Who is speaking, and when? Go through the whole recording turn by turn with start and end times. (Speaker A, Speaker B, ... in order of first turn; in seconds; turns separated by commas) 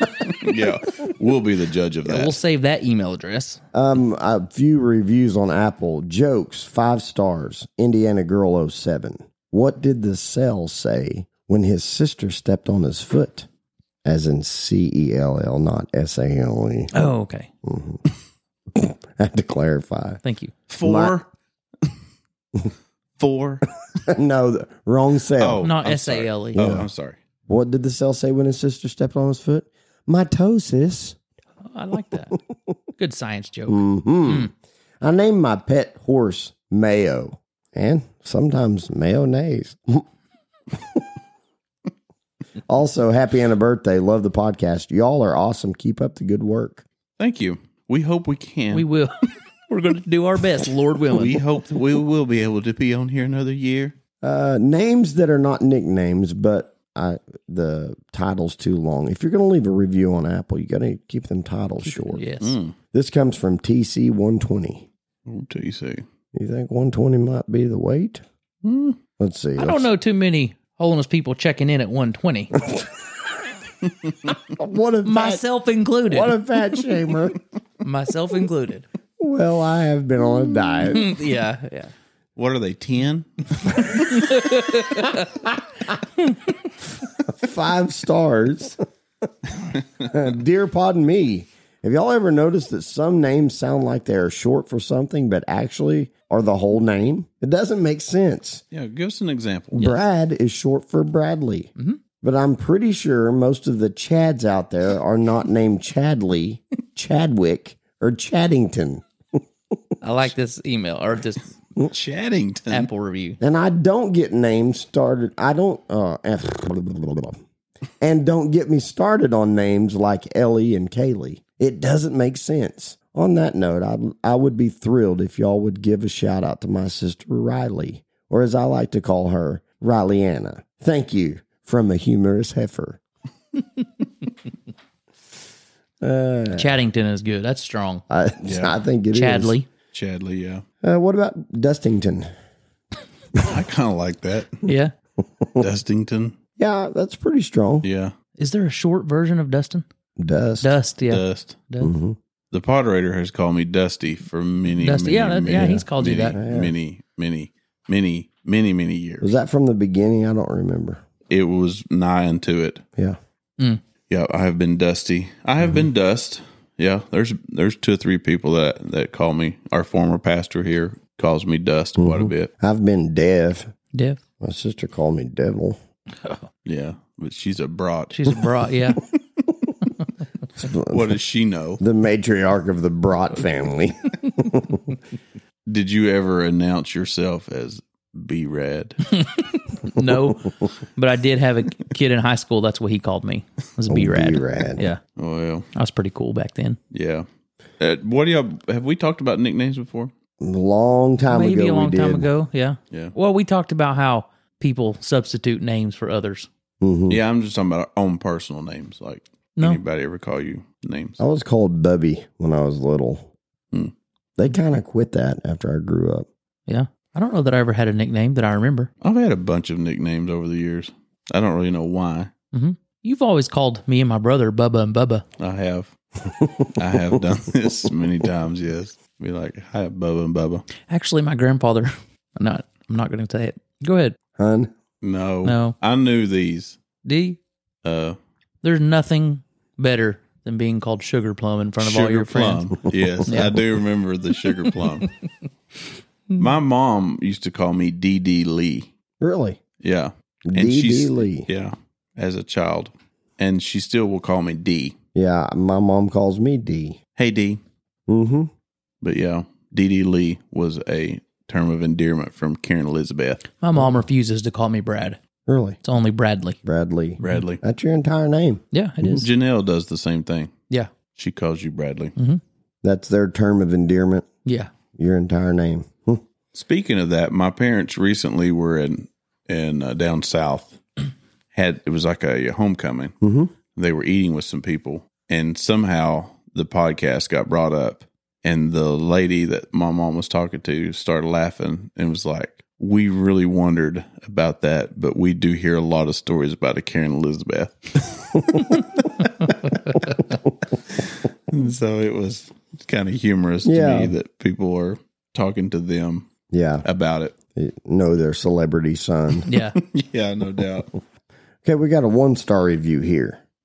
Speaker A: 0.3-2.4, Speaker B: 2.0-3.6, Speaker C: 3.7-13.5, Speaker C: 14.0-16.9, Speaker B: 16.9-17.5, Speaker C: 17.6-18.0, Speaker C: 18.7-20.2, Speaker B: 20.2-20.5, Speaker A: 20.7-21.3, Speaker C: 20.8-21.2, Speaker A: 23.2-23.6, Speaker C: 24.0-25.7, Speaker A: 25.4-27.2, Speaker B: 25.6-26.8, Speaker C: 26.6-26.9, Speaker C: 27.5-31.2, Speaker B: 31.7-32.4, Speaker B: 33.0-34.5, Speaker C: 33.7-40.0, Speaker C: 40.7-41.0, Speaker C: 42.7-46.8, Speaker A: 47.2-48.9, Speaker B: 48.7-49.2, Speaker B: 49.7-51.4, Speaker A: 51.1-53.9, Speaker C: 54.2-62.2, Speaker B: 61.9-62.5, Speaker A: 62.4-62.7, Speaker C: 62.9-64.9, Speaker A: 65.2-66.0, Speaker C: 66.3-68.2, Speaker A: 68.6-69.0, Speaker C: 69.2-69.9, Speaker B: 69.6-72.5, Speaker C: 74.5-75.4, Speaker B: 75.0-76.3, Speaker C: 76.1-77.4, Speaker B: 77.8-78.8, Speaker C: 79.2-81.1, Speaker B: 80.8-81.9, Speaker A: 82.3-84.2, Speaker B: 84.1-85.2, Speaker C: 87.2-88.8, Speaker A: 89.7-90.1, Speaker C: 90.0-98.6, Speaker A: 98.7-99.9, Speaker C: 99.7-109.8, Speaker B: 110.0-111.5, Speaker A: 111.8-112.9, Speaker B: 112.7-113.4, Speaker C: 113.4-117.4, Speaker C: 118.0-133.0, Speaker C: 136.0-136.7, Speaker B: 136.5-138.0, Speaker C: 138.1-139.5, Speaker A: 138.4-138.7, Speaker B: 139.1-139.7, Speaker A: 139.9-140.6, Speaker C: 140.8-142.3, Speaker A: 143.4-144.6, Speaker B: 144.6-144.9, Speaker A: 145.6-146.3, Speaker C: 146.6-147.8, Speaker A: 147.8-148.1, Speaker B: 148.4-149.8, Speaker C: 150.2-150.7, Speaker B: 150.6-151.9, Speaker A: 151.1-151.6, Speaker C: 151.8-152.2, Speaker A: 152.5-159.3, Speaker B: 154.8-156.3, Speaker C: 156.3-156.7, Speaker C: 159.2-161.0, Speaker A: 161.3-162.8, Speaker A: 164.1-172.5, Speaker C: 172.0-173.7, Speaker B: 173.9-174.2, Speaker C: 174.4-175.8, Speaker A: 176.6-178.3, Speaker B: 178.1-179.0, Speaker C: 180.6-181.1, Speaker A: 180.9-181.8, Speaker C: 181.8-184.8, Speaker A: 185.7-189.0, Speaker B: 189.1-195.0, Speaker C: 193.9-194.8, Speaker A: 195.2-195.7, Speaker B: 195.7-196.8, Speaker A: 196.9-197.3, Speaker A: 197.8-200.1, Speaker C: 200.4-202.3, Speaker B: 201.3-206.5, Speaker C: 206.8-207.2, Speaker A: 207.1-211.2, Speaker C: 211.2-213.3, Speaker C: 214.4-216.3, Speaker B: 216.7-218.9, Speaker A: 219.0-222.3, Speaker B: 222.5-225.2, Speaker A: 225.4-225.9, Speaker A: 226.7-230.7, Speaker B: 230.9-234.2, Speaker C: 234.3-234.7, Speaker A: 235.0-236.8, Speaker B: 235.4-235.8, Speaker B: 237.0-237.4, Speaker A: 237.8-238.2, Speaker B: 238.6-243.6, Speaker A: 241.8-245.1, Speaker A: 246.4-248.9, Speaker C: 249.2-249.6, Speaker A: 249.8-254.9, Speaker C: 250.5-251.5, Speaker C: 255.1-257.0, Speaker A: 257.1-257.6, Speaker C: 258.1-258.5, Speaker A: 259.0-263.4, Speaker B: 263.6-265.2, Speaker C: 265.5-265.8, Speaker B: 265.8-266.6, Speaker C: 266.6-268.6, Speaker A: 267.2-267.6, Speaker B: 268.7-269.3, Speaker A: 269.0-270.5, Speaker A: 271.1-272.1, Speaker C: 272.8-274.3, Speaker C: 274.9-276.2, Speaker A: 276.5-280.8, Speaker A: 281.5-283.1, Speaker C: 283.2-283.5, Speaker A: 283.7-298.8, Speaker A: 300.9-306.3, Speaker C: 303.6-304.1, Speaker C: 306.5-306.8, Speaker A: 306.8-307.3, Speaker C: 307.5-309.5, Speaker B: 309.5-309.8, Speaker A: 309.5-310.9, Speaker C: 311.6-313.4